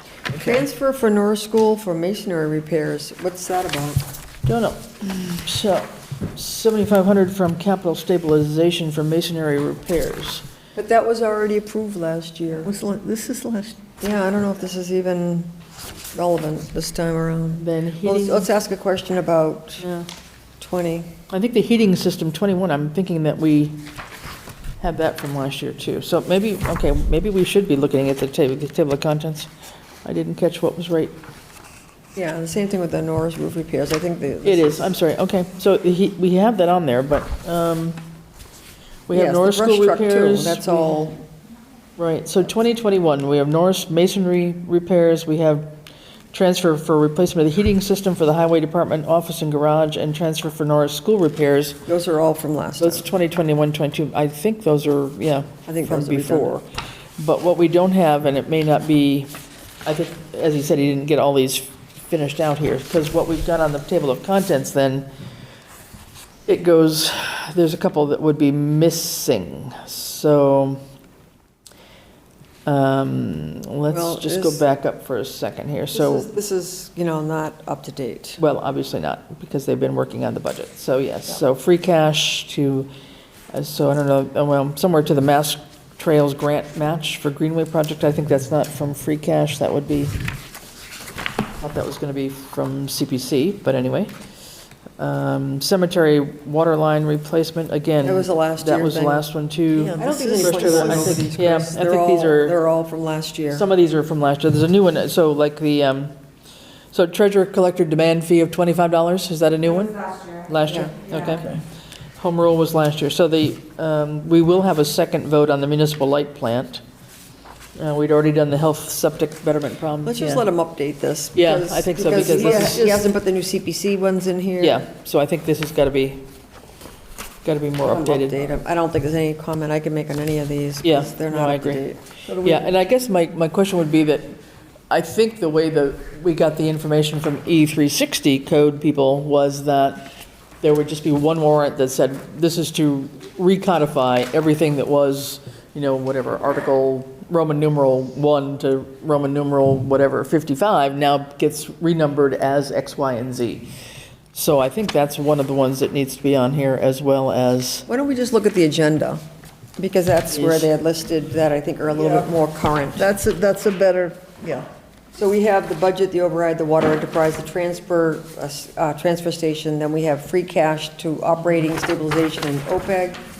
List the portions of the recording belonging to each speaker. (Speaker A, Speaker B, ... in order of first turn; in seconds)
Speaker A: 0.3-0.6, 12.6-13.8, 99.7-101.2, 111.3-111.6, 122.4-122.8, 132.3-132.6, 161.9-162.2, 162.9-164.7
Speaker B: 0.4-4.0, 10.8-12.7, 14.0-15.5, 16.1-19.9, 20.6-21.1, 32.1-34.9, 39.1-41.1, 51.9-53.1, 55.7-56.6, 73.9-74.6, 75.9-78.4, 98.0-99.2, 100.0-103.7, 110.6-110.9, 120.0-124.8, 127.8-132.0, 157.9-159.2, 159.8-163.1, 165.1-173.2
Speaker C: 4.5-10.4, 17.6-18.5, 19.8-20.1, 21.3-23.8, 24.8-29.5, 30.0-31.1, 34.4-38.0, 39.1-41.2, 42.0-45.7, 46.3-51.8, 52.8-56.7, 57.2-59.3, 59.8-65.1, 66.5-70.8, 72.7-76.3, 78.4-82.9, 83.5-90.2, 91.6-94.1, 95.0-102.6, 103.5-106.1, 106.9-111.6, 112.2-116.8, 117.8-120.4, 121.3-123.0, 124.6-126.2, 127.4-128.4, 130.8-131.8, 132.4-134.4, 134.9-140.1, 140.6-153.7, 154.3-157.9, 160.3-160.7